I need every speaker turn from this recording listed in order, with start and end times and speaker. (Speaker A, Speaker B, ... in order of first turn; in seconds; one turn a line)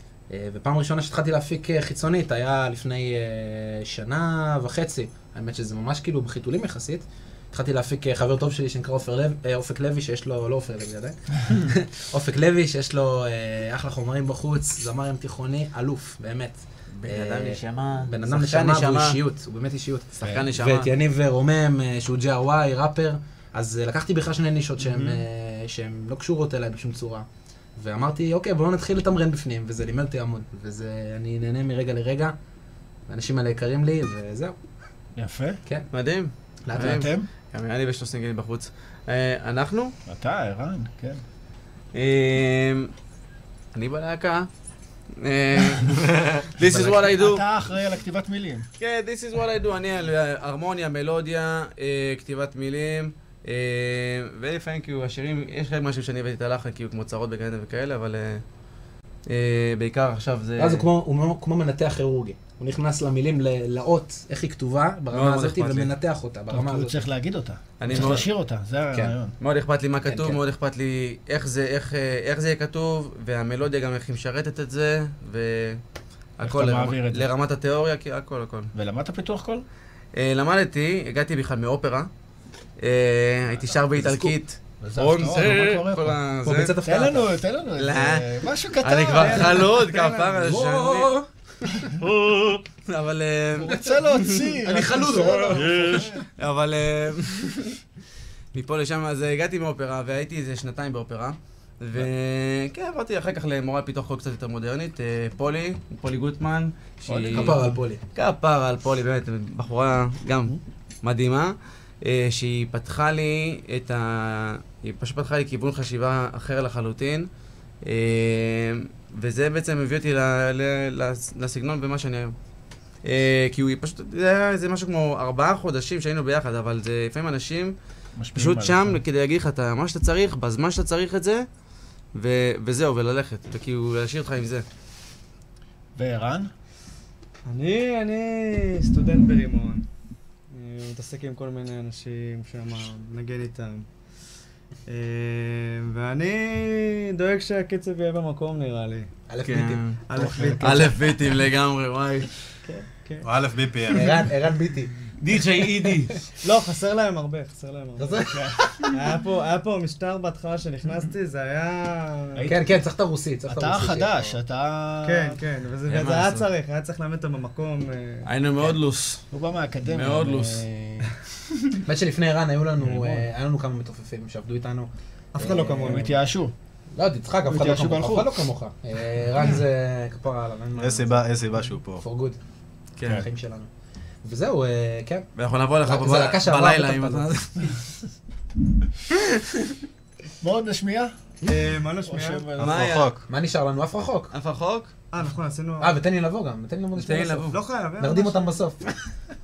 Speaker A: 0.3-27.2
Speaker B: 17.0-19.2
Speaker B: 20.2-20.9
Speaker B: 24.8-25.2
Speaker A: 27.8-32.3
Speaker A: 33.1-34.5
Speaker C: 35.1-35.6
Speaker B: 35.9-39.9
Speaker A: 36.6-37.1
Speaker C: 36.7-37.3
Speaker C: 40.1-41.2
Speaker B: 41.9-42.9
Speaker B: 43.7-44.5
Speaker B: 45.2-47.4
Speaker D: 46.0-46.4
Speaker A: 46.6-46.9
Speaker C: 46.7-48.7
Speaker B: 48.8-58.4
Speaker B: 59.3-60.9
Speaker A: 60.6-67.0
Speaker B: 65.1-65.9
Speaker C: 66.5-69.3
Speaker B: 67.8-68.3
Speaker B: 69.4-75.8
Speaker A: 70.0-70.4
Speaker B: 76.4-78.7
Speaker C: 76.4-77.3
Speaker C: 78.7-79.7
Speaker B: 80.2-82.1
Speaker B: 82.8-86.8
Speaker C: 84.0-84.3
Speaker C: 84.8-86.2
Speaker A: 86.4-87.3
Speaker C: 86.8-89.7
Speaker B: 87.8-91.1
Speaker E: 89.1-90.5
Speaker A: 90.4-91.9
Speaker B: 92.0-94.4
Speaker C: 93.6-96.3
Speaker A: 93.7-94.0
Speaker A: 94.6-96.1
Speaker B: 95.7-97.8
Speaker B: 98.5-117.3
Speaker C: 107.1-107.6
Speaker A: 107.3-108.0
Speaker B: 117.8-122.3
Speaker B: 123.0-127.8
Speaker C: 128.2-129.0
Speaker B: 128.3-131.4
Speaker B: 132.1-134.6
Speaker C: 135.9-136.5
Speaker E: 137.5-139.8
Speaker E: 140.5-143.9
Speaker E: 144.9-149.1
Speaker A: 149.3-149.9
Speaker B: 149.4-150.0
Speaker E: 150.1-151.1
Speaker C: 150.1-150.9
Speaker B: 150.6-152.3
Speaker E: 152.6-153.3
Speaker D: 153.2-154.2
Speaker A: 153.9-154.9
Speaker B: 155.2-156.2
Speaker E: 156.4-158.3
Speaker A: 158.0-158.9
Speaker C: 158.3-158.8
Speaker E: 158.9-162.5
Speaker C: 162.3-162.7
Speaker A: 162.4-164.3
Speaker C: 163.5-165.4
Speaker E: 165.0-168.3
Speaker B: 165.8-166.5
Speaker B: 168.2-169.2
Speaker C: 169.3-171.1
Speaker B: 169.9-170.7
Speaker A: 171.8-176.0
Speaker C: 172.8-173.3
Speaker E: 175.3-176.2
Speaker C: 175.8-176.5
Speaker A: 176.9-181.2
Speaker C: 177.5-178.5
Speaker D: 180.8-182.0
Speaker A: 182.0-182.4
Speaker A: 183.0-183.7
Speaker A: 184.2-185.3
Speaker B: 185.4-187.8
Speaker A: 185.8-187.3
Speaker C: 190.4-191.1
Speaker E: 191.4-192.5
Speaker C: 192.0-193.0
Speaker B: 192.6-193.1
Speaker D: 192.6-193.2
Speaker A: 193.3-194.3
Speaker B: 194.3-194.9
Speaker E: 195.1-196.0
Speaker A: 195.8-198.9
Speaker B: 196.9-197.6
Speaker E: 197.5-198.6